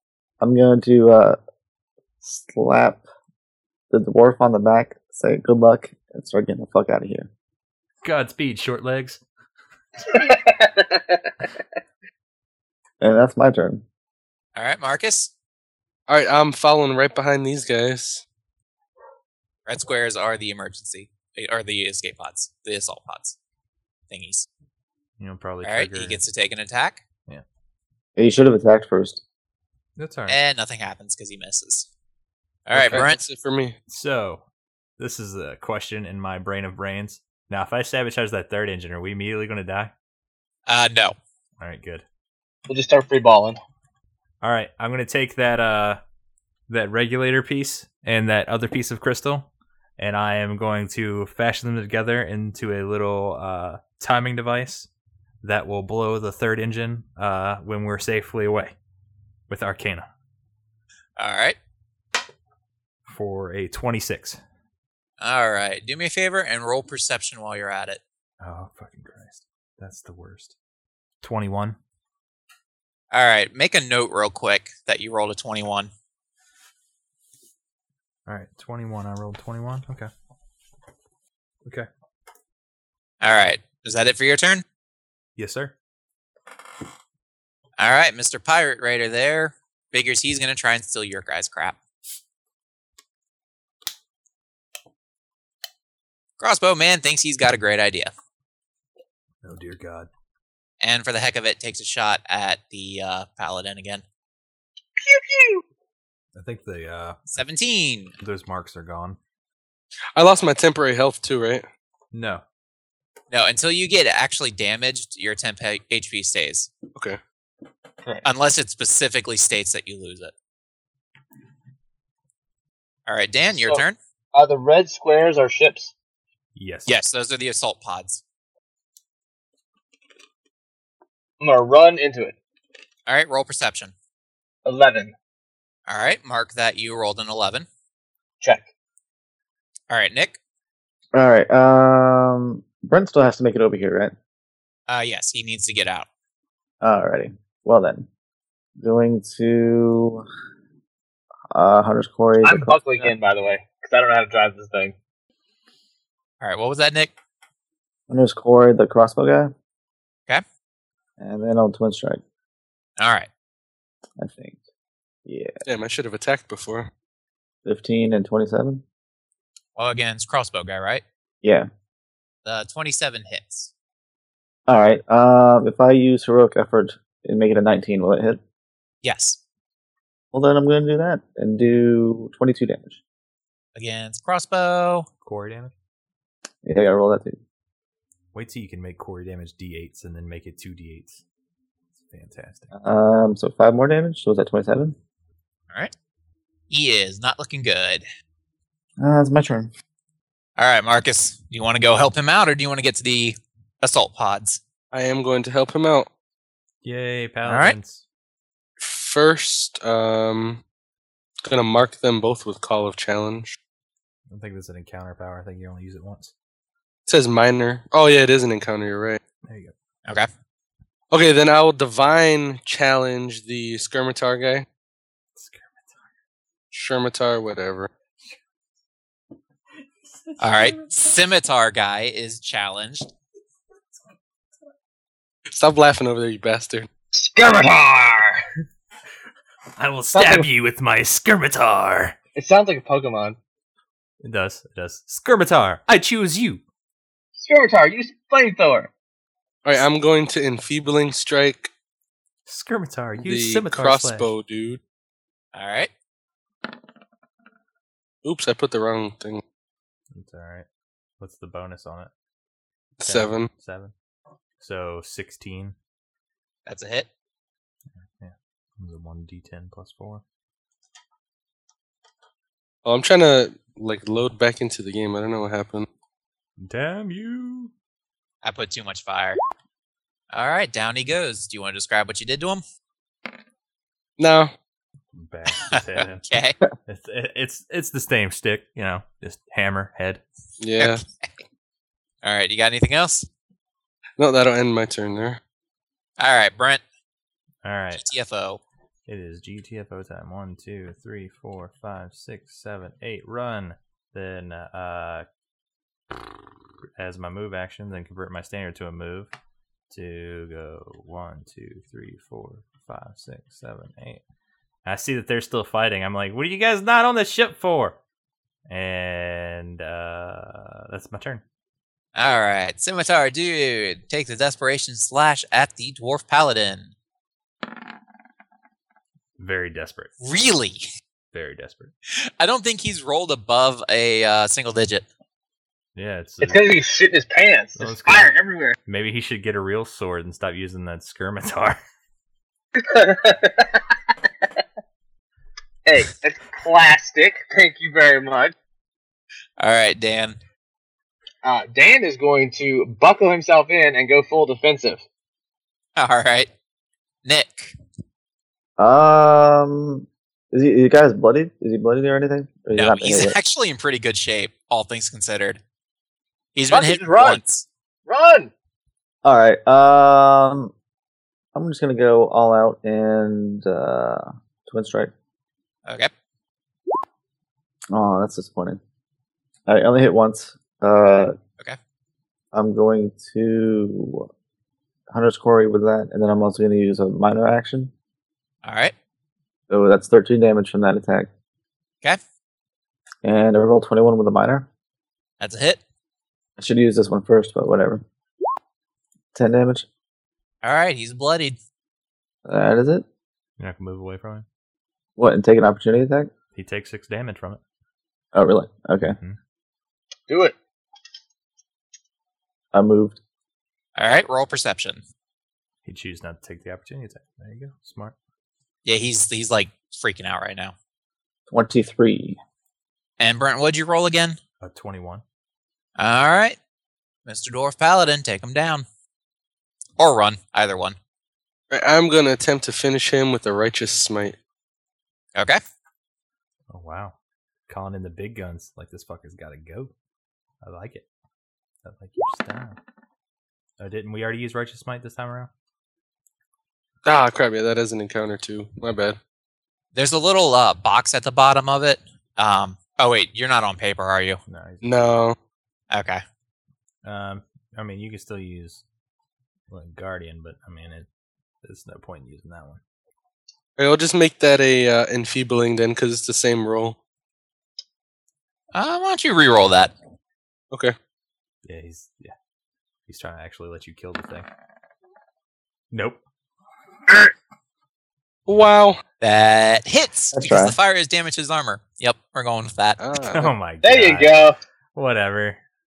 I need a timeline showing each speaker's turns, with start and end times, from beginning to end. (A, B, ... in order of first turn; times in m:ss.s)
0:00.4-0:01.4 A
0:02.2-0:03.0 A
0:03.9-0:07.3 A
0:08.0-0:09.2 B
0:10.0-0:11.2 C
0:13.0-0:13.8 A
0:14.6-0:15.3 D
0:16.1-0:18.2 E
0:19.6-0:23.4 D
0:24.1-0:24.5 D
0:25.2-0:26.2 B
0:25.6-0:27.0 D
0:28.2-0:29.2 A
0:30.0-0:30.4 B
0:30.3-0:31.9 D
0:32.7-0:33.2 D
0:32.7-0:33.8 E
0:33.9-0:34.4 B
0:35.0-0:39.9 B
0:40.7-0:41.2 D
0:41.6-0:42.0 B
0:42.7-0:43.6 C
0:44.4-0:46.0 B
0:46.7-0:54.9 B
0:55.4-0:58.7 B
0:59.5-1:00.1 B
1:01.2-1:01.6 D
1:03.1-1:04.4 B
1:05.2-1:08.0 D
1:08.4-1:10.5 B
1:11.2-1:11.8 B
1:13.1-1:15.9 D
1:18.3-1:20.1 B
1:23.2-1:24.6 D
1:25.4-1:25.7 B
1:27.8-1:31.8 D
1:36.4-1:38.1 D
1:39.4-1:40.1 B
1:40.8-1:44.0 D
1:45.0-1:45.6 C
1:46.3-1:47.2 B
1:47.3-1:48.1 D
1:48.2-1:49.2 B
1:50.1-1:51.6 E
1:52.1-1:52.4 B
1:53.3-1:56.7 D
1:56.9-1:57.2 E
1:58.2-2:00.3 D
2:03.0-2:04.0 D
2:03.5-2:05.9 C
2:06.6-2:06.9 B
2:06.9-2:08.2 D
2:11.4-2:12.3 C
2:13.1-2:13.9 D
2:14.6-2:15.1 C
2:15.9-2:17.6 D
2:18.4-2:18.6 C
2:19.9-2:20.4 D
2:21.1-2:24.1 A
2:24.9-2:26.0 D
2:26.8-2:28.1 A
2:28.8-2:30.2 A
2:31.5-2:33.1 A
2:32.4-2:34.9 C
2:36.4-2:37.1 D
2:38.1-2:39.5 A
2:41.2-2:42.2 A
2:43.0-2:43.3 D
2:44.2-2:44.6 A
2:45.2-2:45.6 A
2:45.6-2:46.9 E
2:47.6-2:48.8 A
2:49.8-2:51.0 D
2:51.4-2:51.7 A
2:52.4-2:53.7 D
2:54.7-2:58.4 A
2:59.0-2:59.4 D
3:00.3-3:03.0 A
3:03.7-3:05.1 D
3:05.2-3:05.7 B
3:06.6-3:07.4 A
3:08.3-3:11.2 B
3:12.0-3:12.7 B
3:12.7-3:15.0 A
3:16.7-3:18.0 D
3:19.0-3:19.7 A
3:20.6-3:24.6 D
3:24.9-3:26.1 E
3:26.8-3:28.0 B
3:27.4-3:27.8 D
3:28.8-3:30.6 E
3:31.4-3:33.6 E
3:34.3-3:36.3 B
3:37.0-3:39.2 E
3:39.4-3:39.7 B
3:41.1-3:44.6 E
3:45.4-3:45.9 B
3:46.7-3:47.9 E
3:50.1-3:51.1 B
3:50.4-3:53.1 D
3:55.5-3:56.9 E
3:57.1-3:58.4 C
3:59.8-4:02.1 B
4:00.1-4:00.4 C
4:02.3-4:03.4 C
4:04.2-4:06.6 B
4:07.4-4:08.9 C
4:09.6-4:11.7 E
4:12.5-4:14.3 B
4:13.2-4:14.8 E
4:15.5-4:15.9 D
4:18.2-4:19.4 E
4:20.1-4:20.6 B
4:21.2-4:22.1 B
4:23.0-4:23.5 E
4:23.0-4:23.9 B
4:24.6-4:25.7 B
4:26.6-4:27.1 D
4:28.0-4:30.2 B
4:32.8-4:35.9 E
4:36.6-4:37.7 B
4:38.4-4:39.4 D
4:40.3-4:42.6 D
4:44.2-4:44.5 E
4:45.1-4:46.2 B
4:46.3-4:46.6 D
4:46.8-4:50.2 B
4:50.6-4:51.0 E
4:50.8-4:51.3 D
4:52.2-4:53.3 D
4:54.2-4:55.4 E
4:56.2-4:56.8 D
4:57.6-4:58.0 B
4:58.0-4:58.6 D
4:59.1-5:05.2 B
5:07.0-5:09.3 B
5:09.9-5:14.2 B
5:14.8-5:18.0 B
5:18.7-5:21.4 B
5:22.1-5:26.9 D
5:29.4-5:30.1 B
5:30.2-5:30.8 D
5:31.3-5:31.9 B
5:32.4-5:35.0 D
5:36.0-5:36.6 B
5:36.4-5:38.8 C
5:37.8-5:38.3 B
5:38.8-5:41.8 B
5:42.8-5:43.9 C
5:45.8-5:48.5 C
5:49.6-5:50.4 D
5:51.4-5:55.0 C
5:56.0-5:56.5 D
5:57.2-5:57.8 D
5:58.8-6:03.3 A
6:02.8-6:05.6 D
6:06.5-6:07.6 D
6:06.7-6:07.4 C
6:08.1-6:08.5 C
6:09.2-6:10.7 A
6:11.5-6:15.1 A
6:17.9-6:18.8 A
6:19.7-6:21.4 A
6:22.5-6:24.3 A
6:25.1-6:27.9 A
6:28.6-6:28.9 D
6:29.7-6:31.3 A
6:33.2-6:34.7 A
6:35.4-6:35.8 D
6:36.6-6:38.0 A
6:39.3-6:39.8 A
6:40.6-6:41.6 D
6:42.4-6:43.0 A
6:43.6-6:44.4 B
6:45.2-6:46.3 A
6:46.5-6:47.6 B
6:48.3-6:49.1 A
6:50.3-6:50.5 C
6:52.7-6:53.2 A
6:54.0-6:55.0 D
6:55.8-6:58.1 B
6:58.8-7:00.7 D
7:01.5-7:02.4 A
7:03.2-7:04.4 D
7:04.6-7:05.2 B
7:06.0-7:06.6 D
7:07.2-7:08.8 D
7:10.0-7:11.0 D
7:11.7-7:14.4 E
7:15.3-7:15.6 D
7:16.7-7:17.1 B
7:17.7-7:19.9 B
7:20.6-7:21.0 B
7:21.8-7:22.8 B
7:23.8-7:25.5 B
7:27.0-7:29.2 E
7:29.9-7:34.4 D
7:34.5-7:35.2 B
7:34.8-7:35.4 E
7:35.9-7:36.2 D
7:37.0-7:38.8 B
7:39.7-7:41.0 B
7:41.6-7:42.8 B
7:43.8-7:47.0 E
7:48.7-7:49.9 D
7:51.6-7:52.3 B
7:53.1-7:54.5 B
7:55.9-7:56.2 B
7:58.5-7:59.0 E
7:59.2-8:03.0 D
8:00.3-8:00.8 A
8:03.0-8:03.5 E
8:03.2-8:04.4 B
8:03.8-8:04.6 C
8:05.0-8:05.6 B